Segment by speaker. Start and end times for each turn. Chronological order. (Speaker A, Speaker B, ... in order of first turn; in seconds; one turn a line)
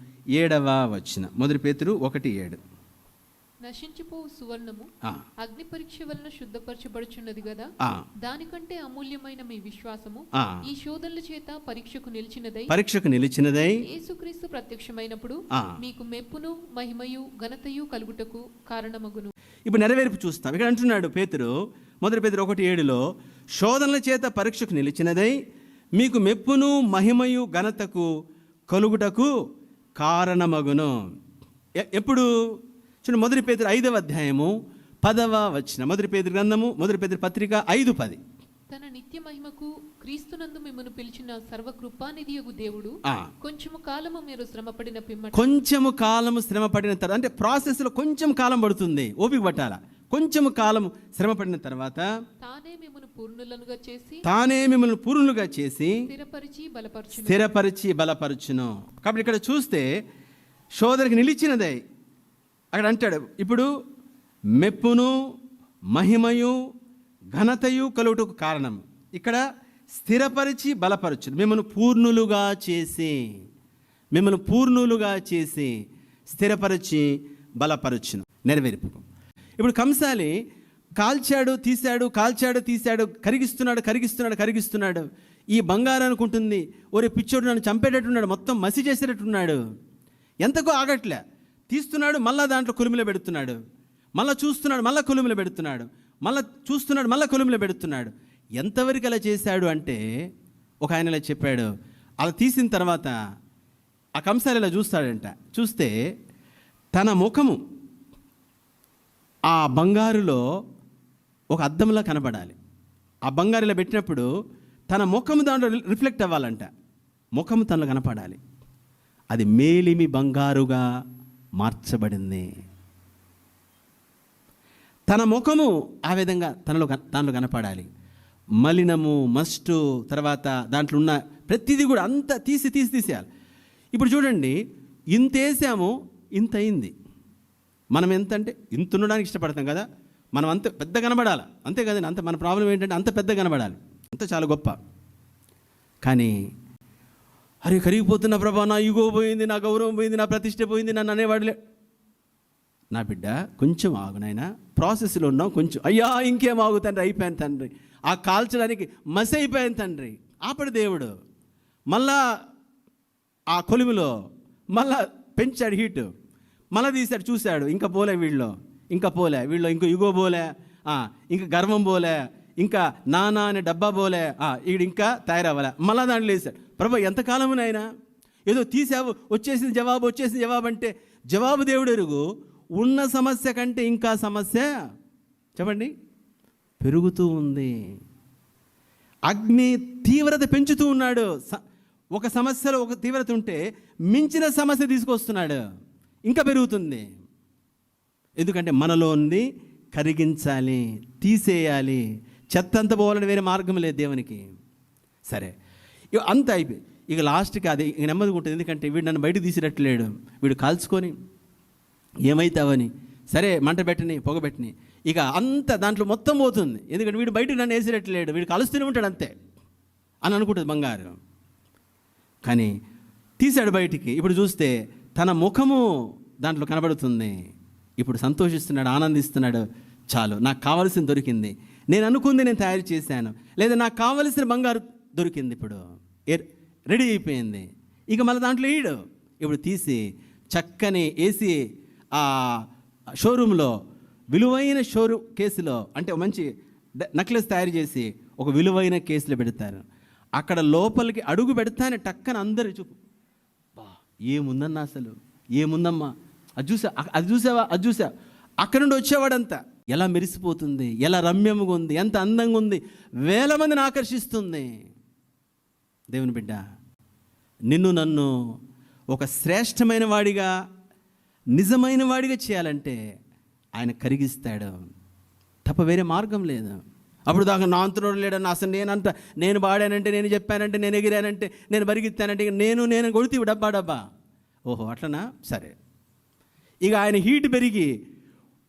Speaker A: 0.3-2.6
Speaker B: 3.6-4.9
Speaker B: 5.4-7.7
Speaker B: 8.2-12.7
Speaker A: 12.7-13.8
Speaker B: 13.8-19.3
Speaker A: 19.7-21.5
Speaker A: 22.0-23.0
Speaker A: 23.6-25.4
Speaker A: 26.0-28.1
Speaker A: 28.7-29.3
Speaker A: 30.0-30.9
Speaker A: 31.8-32.3
Speaker A: 33.0-34.5
Speaker A: 35.0-38.2
Speaker B: 38.7-45.6
Speaker A: 45.3-52.1
Speaker B: 52.4-54.2
Speaker A: 54.2-56.0
Speaker B: 56.0-57.4
Speaker A: 57.2-59.9
Speaker A: 60.8-61.8
Speaker A: 62.7-63.7
Speaker A: 64.6-65.1
Speaker A: 65.9-66.5
Speaker A: 67.3-69.4
Speaker A: 70.0-73.2
Speaker A: 74.1-75.7
Speaker A: 76.3-79.0
Speaker A: 79.6-80.3
Speaker A: 81.0-89.6
Speaker A: 90.4-93.6
Speaker A: 94.2-100.0
Speaker A: 100.8-101.7
Speaker A: 102.2-103.1
Speaker A: 104.2-105.9
Speaker A: 106.9-107.6
Speaker A: 109.5-110.4
Speaker A: 111.5-112.5
Speaker A: 113.3-114.3
Speaker A: 114.9-116.7
Speaker A: 117.4-118.4
Speaker A: 119.3-120.8
Speaker A: 121.6-122.5
Speaker A: 125.1-127.9
Speaker A: 128.6-133.3
Speaker A: 133.9-134.6
Speaker A: 135.1-136.9
Speaker A: 137.9-144.8
Speaker A: 146.0-146.3
Speaker A: 147.6-151.6
Speaker A: 152.9-161.1
Speaker A: 161.9-162.2
Speaker A: 163.5-164.1
Speaker A: 164.7-166.1
Speaker A: 166.7-177.9
Speaker A: 178.5-182.2
Speaker A: 182.8-184.7
Speaker A: 185.6-185.9
Speaker A: 186.8-187.7
Speaker A: 189.3-191.6
Speaker A: 192.2-193.6
Speaker A: 194.1-195.6
Speaker A: 196.3-197.1
Speaker A: 198.4-204.4
Speaker A: 206.1-211.1
Speaker A: 212.2-219.3
Speaker A: 220.2-221.2
Speaker A: 222.4-222.7
Speaker A: 223.4-225.9
Speaker A: 226.4-227.3
Speaker A: 228.0-241.6
Speaker A: 242.2-242.6
Speaker A: 243.2-243.7
Speaker A: 244.3-246.5
Speaker A: 247.0-249.8
Speaker A: 250.4-253.0
Speaker A: 253.8-256.1
Speaker A: 256.6-258.1
Speaker A: 258.6-264.7
Speaker A: 266.1-266.6
Speaker A: 267.7-268.3
Speaker A: 269.1-270.5
Speaker A: 271.6-273.0
Speaker A: 273.8-274.8
Speaker A: 275.6-284.0
Speaker A: 284.7-285.7
Speaker A: 286.8-287.9